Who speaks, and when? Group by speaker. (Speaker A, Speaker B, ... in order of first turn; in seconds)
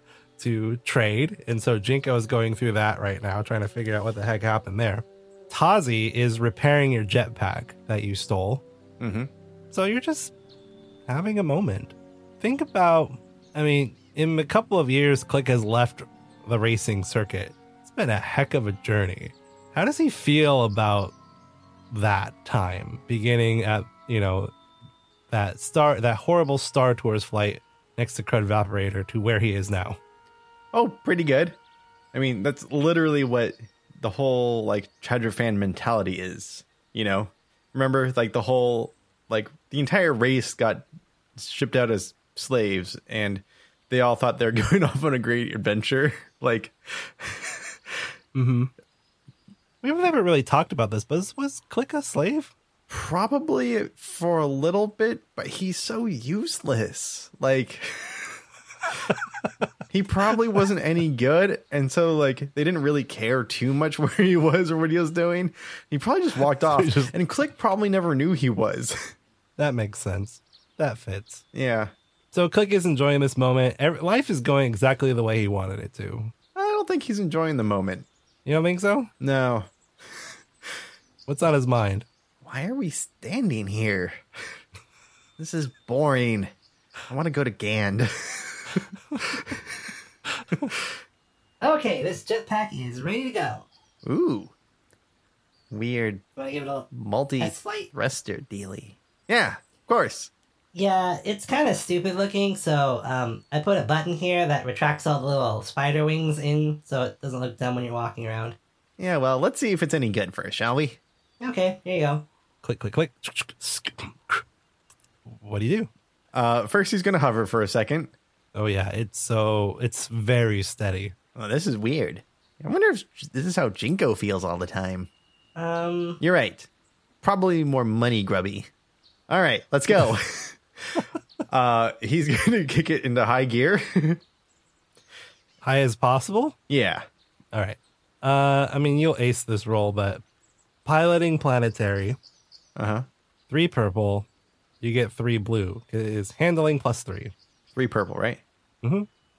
Speaker A: 0.4-8.6, 9.7-10.3, 11.1-21.1, 21.9-24.5, 25.3-30.0, 48.3-48.7, 49.8-52.5, 66.5-67.1, 69.6-71.4, 72.3-76.3, 78.4-79.1, 81.3-82.0, 112.6-114.4, 115.3-115.9, 118.5-121.1, 135.6-136.6, 137.5-140.2, 140.8-142.2, 143.5-144.3, 144.8-147.3, 148.8-149.1
Speaker B: 9.0-9.3, 30.7-31.6, 32.1-40.9, 41.4-48.0, 52.9-58.4, 59.9-69.1, 71.5-71.9, 76.5-78.1, 79.2-79.7, 82.4-84.2, 85.4-86.5, 87.1-89.6, 94.0-94.5, 95.7-96.2, 96.9-100.3, 109.0-111.0, 116.3-118.1, 121.3-125.1, 126.2-126.7, 127.2-128.7, 129.3-134.2, 136.7-137.1, 142.8-143.1, 147.7-148.4
Speaker C: 91.6-93.7, 96.4-97.9, 100.7-108.6, 111.4-112.2, 125.5-126.2